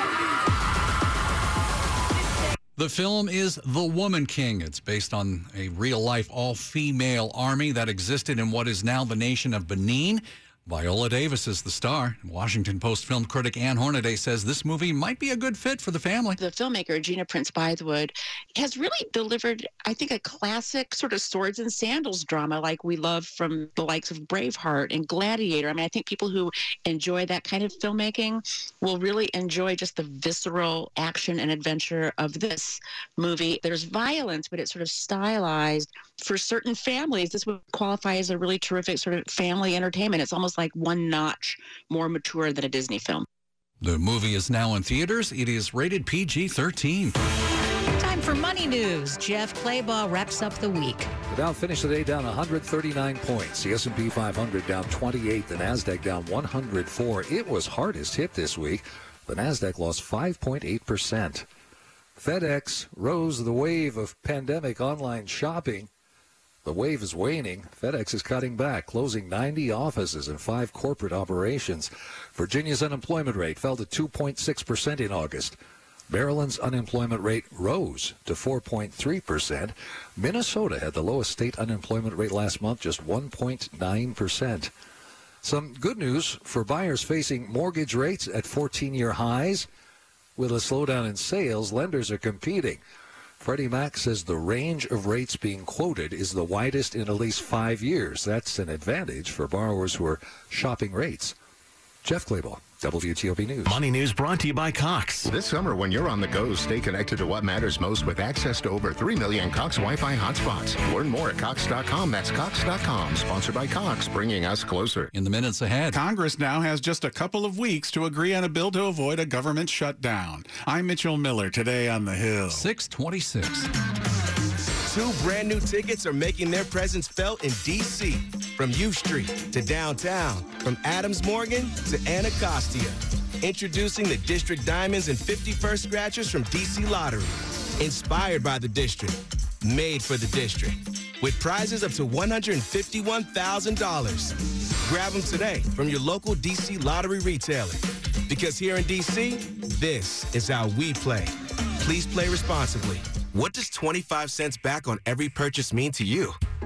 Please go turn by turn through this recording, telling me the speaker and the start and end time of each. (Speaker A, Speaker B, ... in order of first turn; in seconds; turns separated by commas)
Speaker A: 2.8-16.4, Speaker B: 16.4-43.3, Speaker A: 43.8-47.1, Speaker C: 48.0-51.1, Speaker D: 51.3-61.5, Speaker D: 62.1-65.9, Speaker D: 66.6-75.5, Speaker D: 76.1-84.7, Speaker D: 85.4-89.7, Speaker D: 90.3-92.8, Speaker D: 93.4-101.3, Speaker D: 102.0-103.8, Speaker E: 103.7-105.5, Speaker F: 105.3-115.1, Speaker E: 110.8-111.7, Speaker E: 112.5-113.0, Speaker A: 115.1-116.0, Speaker G: 115.9-122.7, Speaker A: 122.5-123.7, Speaker H: 124.9-156.4